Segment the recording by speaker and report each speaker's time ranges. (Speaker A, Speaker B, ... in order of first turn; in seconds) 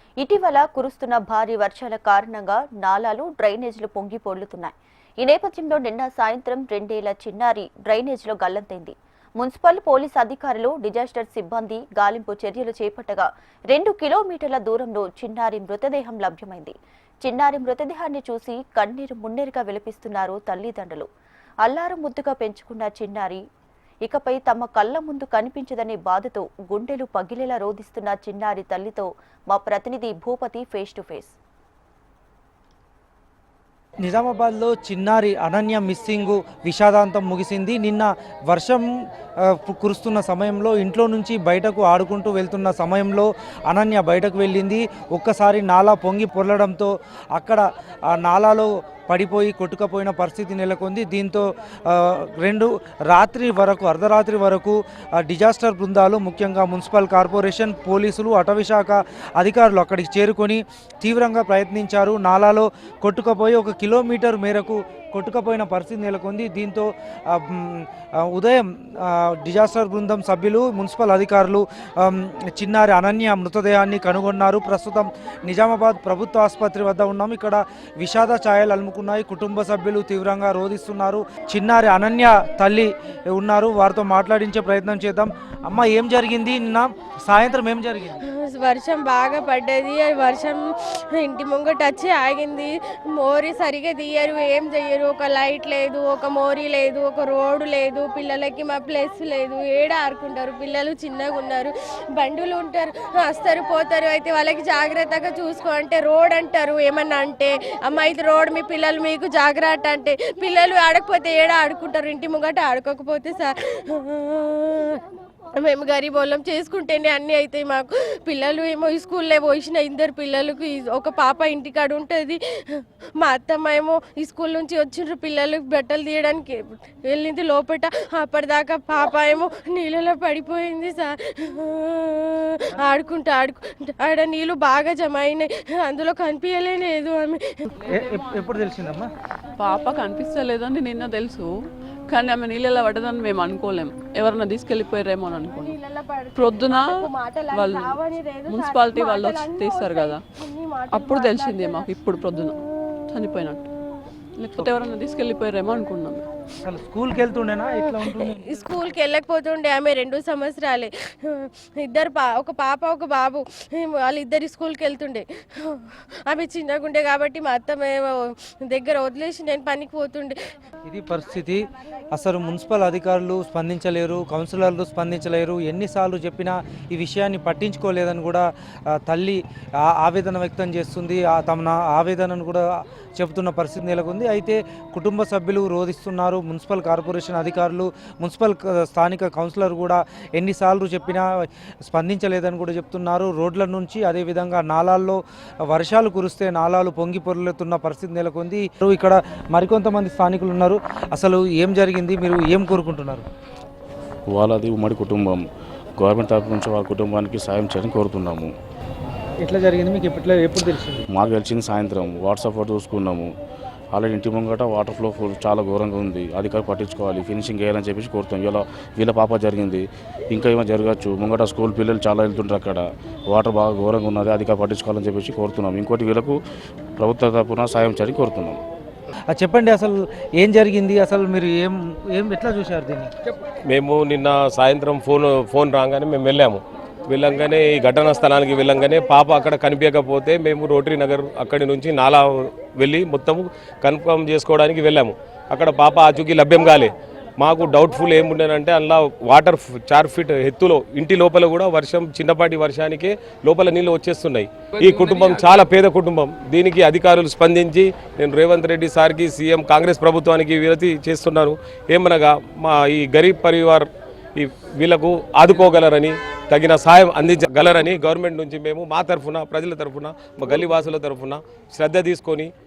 Speaker A: 0.2-21.1, 21.6-23.4, 24.1-31.3
Speaker B: 34.0-38.9, 39.4-88.2, 137.8-139.1, 156.6-158.7, 170.8-178.5, 179.0-182.7, 183.2-203.2, 209.4-211.0, 229.3-233.1
Speaker C: 88.2-137.7, 145.7-151.9, 158.1-170.4
Speaker D: 139.6-141.5, 142.1-145.8, 146.3-150.2, 150.9-153.6, 154.4-156.2
Speaker E: 204.3-205.4, 206.0-208.5, 211.1-213.3, 213.9-226.4, 227.0-228.6
Speaker F: 233.7-272.5